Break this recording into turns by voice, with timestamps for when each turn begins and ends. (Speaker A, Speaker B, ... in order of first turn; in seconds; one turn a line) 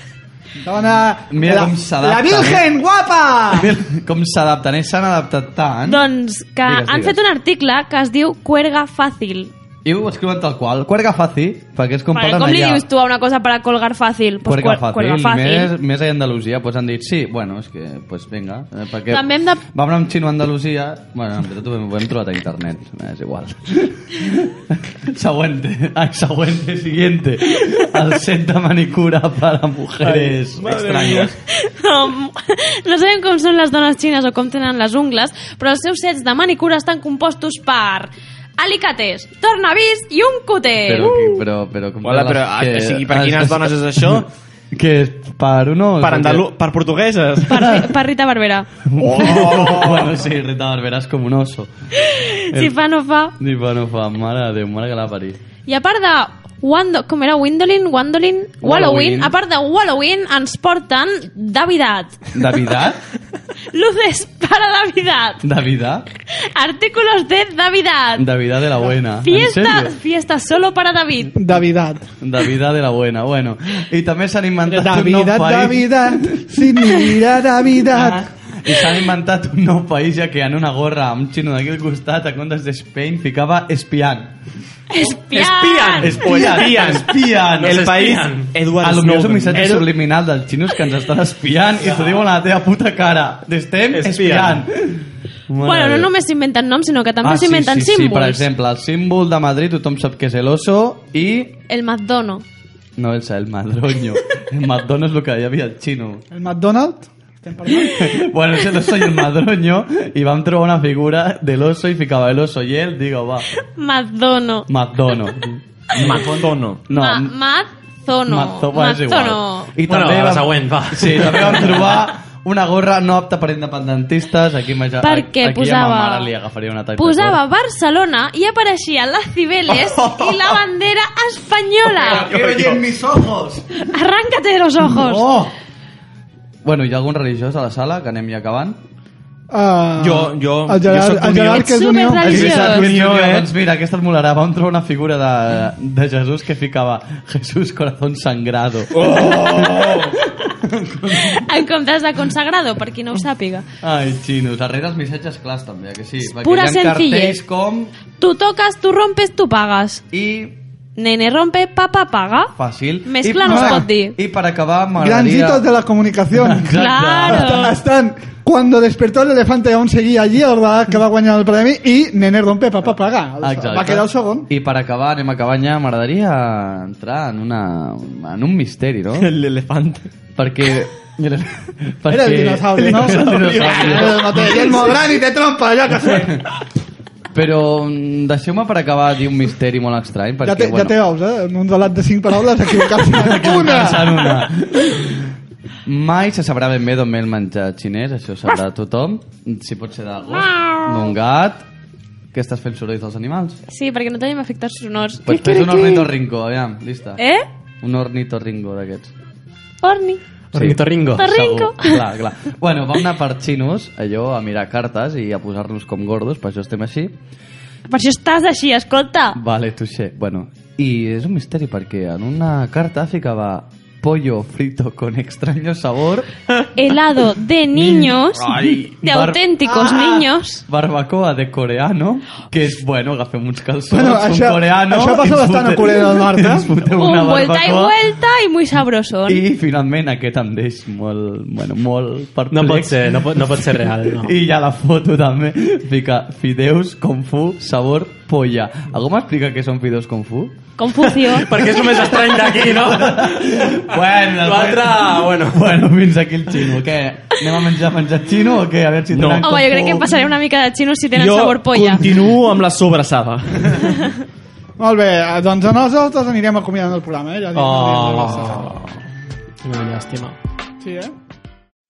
Speaker A: 0.6-3.7
Speaker B: 1.3-2.6
Speaker B: 3.5-6.0
Speaker C: 5.8-9.5
Speaker B: 6.7-7.2
Speaker B: 9.8-12.8
Speaker C: 12.1-15.7
Speaker B: 14.4-31.3
Speaker C: 19.1-19.6
Speaker D: 30.0-31.3
Speaker C: 31.5-41.1
Speaker B: 40.8-46.4
Speaker D: 42.0-44.3
Speaker D: 46.0-47.5
Speaker C: 47.5-48.7
Speaker B: 47.5-47.9
Speaker B: 48.9-51.7
Speaker D: 49.0-50.1
Speaker C: 52.0-53.3
Speaker B: 52.5-52.7
Speaker B: 53.4-55.4
Speaker C: 55.6-62.2
Speaker B: 58.6-59.3
Speaker B: 62.3-63.0
Speaker C: 63.7-65.4
Speaker B: 65.4-66.0
Speaker C: 66.3-68.2
Speaker B: 68.2-69.9
Speaker C: 69.2-71.3
Speaker A: 71.3-72.0
Speaker B: 72.2-76.4
Speaker A: 74.7-78.2
Speaker B: 77.9-84.3
Speaker C: 84.9-86.3
Speaker E: 85.3-86.0
Speaker B: 86.0-87.8
Speaker D: 86.0-89.9
Speaker E: 87.7-88.5
Speaker B: 88.8-96.1
Speaker E: 93.9-94.6
Speaker C: 95.6-98.5
Speaker B: 97.2-101.6
Speaker C: 101.7-102.4
Speaker B: 103.0-106.2
Speaker A: 106.3-108.0
Speaker B: 107.7-113.5
Speaker C: 113.7-114.7
Speaker B: 114.7-117.3
Speaker D: 115.9-116.8
Speaker C: 116.9-119.7
Speaker B: 118.2-127.4
Speaker E: 119.9-121.8
Speaker C: 125.0-126.3
Speaker C: 127.0-132.3
Speaker B: 129.7-130.5
Speaker B: 131.9-133.7
Speaker D: 132.0-132.8
Speaker C: 133.8-135.3
Speaker B: 134.8-135.5
Speaker B: 136.6-138.8
Speaker A: 139.5-142.7
Speaker D: 140.0-141.8
Speaker C: 141.5-142.9
Speaker B: 142.2-151.4
Speaker D: 142.3-143.5
Speaker D: 149.0-150.1
Speaker C: 151.1-153.7
Speaker B: 153.8-157.9
Speaker C: 156.2-157.4
Speaker C: 158.2-160.0
Speaker B: 160.1-160.6
Speaker C: 160.9-162.5
Speaker B: 162.5-165.6
Speaker C: 163.0-164.2
Speaker A: 163.4-163.8
Speaker A: 165.0-174.5
Speaker B: 166.3-167.7
Speaker C: 166.7-167.7
Speaker B: 173.4-179.3
Speaker D: 179.1-180.1
Speaker B: 180.3-184.9
Speaker A: 182.1-186.4
Speaker B: 186.0-186.4
Speaker B: 187.3-190.9
Speaker A: 190.4-194.2
Speaker B: 193.1-195.3
Speaker B: 195.8-201.6
Speaker C: 200.3-201.1
Speaker B: 202.3-203.6
Speaker C: 203.7-206.1
Speaker B: 205.2-207.2
Speaker C: 207.2-207.4
Speaker B: 207.8-209.1
Speaker C: 209.8-210.2
Speaker E: 210.5-211.2
Speaker B: 210.5-217.1
Speaker C: 211.2-212.1
Speaker C: 217.9-219.4
Speaker B: 219.3-226.3
Speaker C: 226.7-230.6
Speaker B: 227.8-238.0
Speaker A: 233.9-236.7
Speaker C: 237.0-239.4
Speaker B: 239.3-250.5
Speaker E: 242.5-244.3
Speaker C: 250.8-251.5
Speaker E: 251.0-253.4
Speaker B: 251.5-260.1
Speaker E: 254.4-255.6
Speaker D: 259.1-259.5
Speaker C: 259.4-262.0
Speaker D: 261.1-263.8
Speaker A: 264.8-268.9
Speaker E: 267.5-268.9
Speaker E: 269.6-270.4
Speaker A: 270.8-271.1